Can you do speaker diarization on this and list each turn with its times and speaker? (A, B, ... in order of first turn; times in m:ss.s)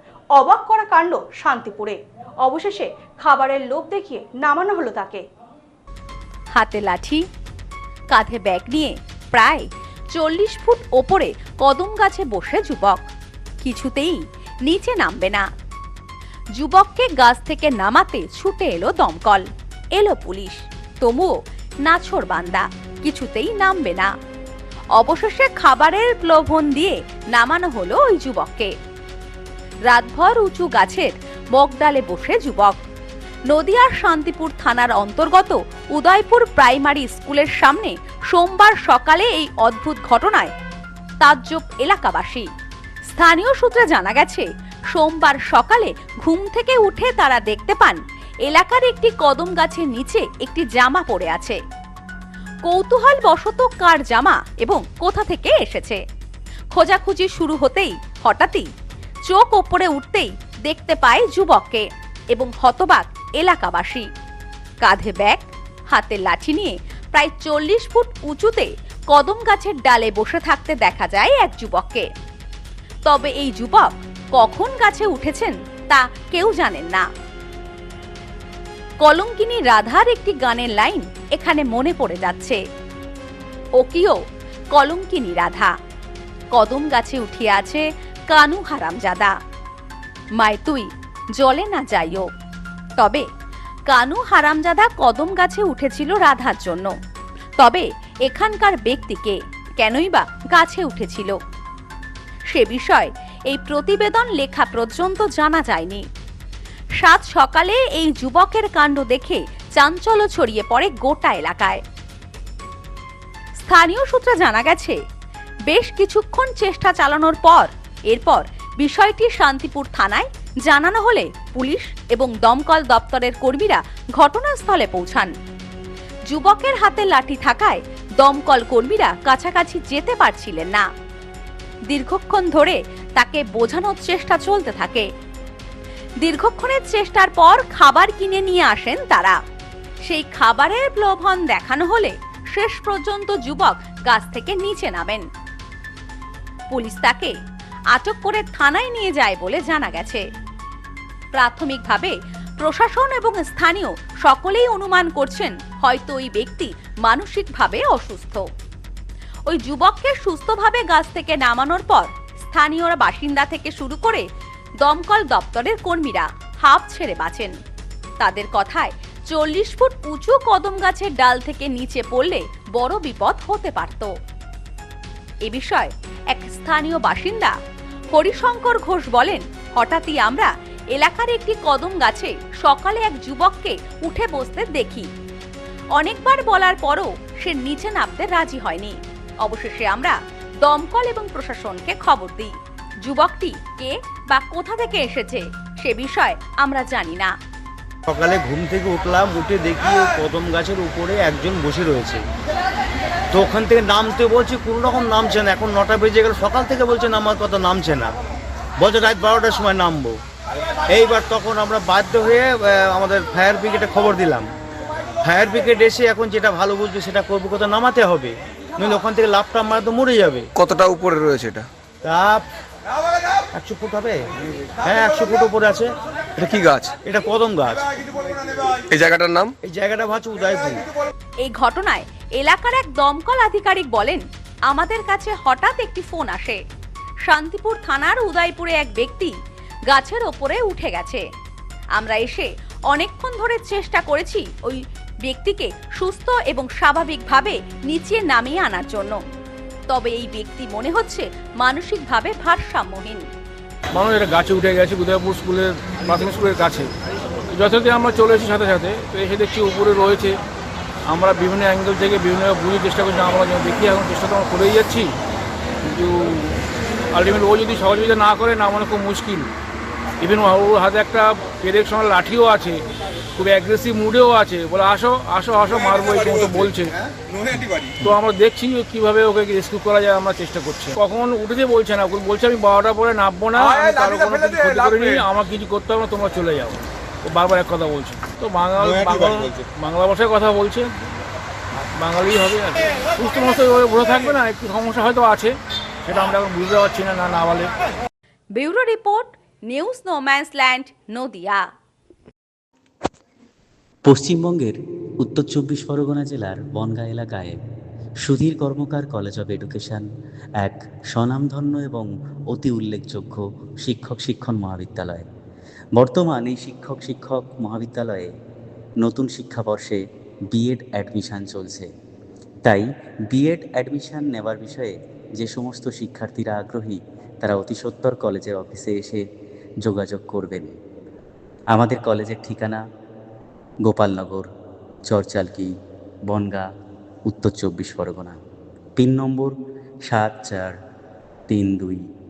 0:00.3-0:05.3 A
0:06.5-0:07.2 B
0:08.1-0:13.0 B
0:13.6-0:15.4 B
0:16.6-0:21.3 B
0:21.8-0:24.1 B
0:25.0-0:28.7 B
0:29.9-0:32.8 B
0:33.5-0:40.5 B
0:41.2-0:42.4 B
0:43.1-0:51.6 B
0:52.6-0:56.0 B
0:56.7-0:58.7 B
0:59.3-1:04.1 B
1:04.8-1:12.1 B
1:13.1-1:17.0 B
1:19.0-1:22.6 B
1:23.8-1:24.2 B
1:24.7-1:25.7 B
1:26.5-1:29.3 B
1:30.4-1:32.3 B
1:33.0-1:33.2 B
1:33.9-1:36.9 B
1:37.6-1:41.4 B
1:42.5-1:46.0 B
1:47.0-1:51.8 B
1:53.6-1:55.0 B
1:55.7-2:05.3 B
2:06.3-2:10.9 B
2:11.9-2:15.1 B
2:16.2-2:19.4 B
2:20.0-2:25.2 B
2:26.7-2:27.3 B
2:27.9-2:30.2 B
2:31.3-2:38.4 B
2:39.5-2:44.2 B
2:44.8-2:47.5 B
2:48.2-2:54.1 B
2:55.4-2:57.6 B
2:58.1-3:05.1 B
3:06.0-3:17.3 B
3:18.1-3:22.2 C
3:23.3-3:28.1 C
3:28.8-3:30.2 C
3:30.9-3:34.5 C
3:35.2-3:40.5 C
3:40.5-3:41.7 D
3:42.0-3:42.4 C
3:43.5-3:44.2 C
3:44.8-3:45.9 C
3:46.4-3:46.9 D
3:46.4-3:48.3 C
3:48.9-3:49.5 D
3:49.6-3:50.8 C
3:51.4-3:56.6 B
3:57.3-3:59.3 B
3:59.9-4:01.2 B
4:02.0-4:09.2 B
4:09.9-4:13.2 B
4:13.9-4:16.9 E
4:17.5-4:20.3 E
4:21.1-4:25.1 E
4:25.8-4:29.5 E
4:30.2-4:32.8 E
4:33.4-4:36.9 E
4:37.5-4:51.2 E
4:51.9-4:57.7 E
4:58.6-5:01.6 B
5:04.0-5:07.6 F
5:08.2-5:10.0 F
5:10.6-5:15.3 F
5:16.0-5:18.3 F
5:19.0-5:21.9 F
5:22.6-5:29.2 F
5:29.8-5:30.8 F
5:31.7-5:32.8 F
5:33.8-5:34.5 F
5:35.1-5:35.7 F
5:36.3-5:36.7 F
5:37.3-5:38.4 F
5:39.0-5:40.8 F
5:41.5-5:42.0 F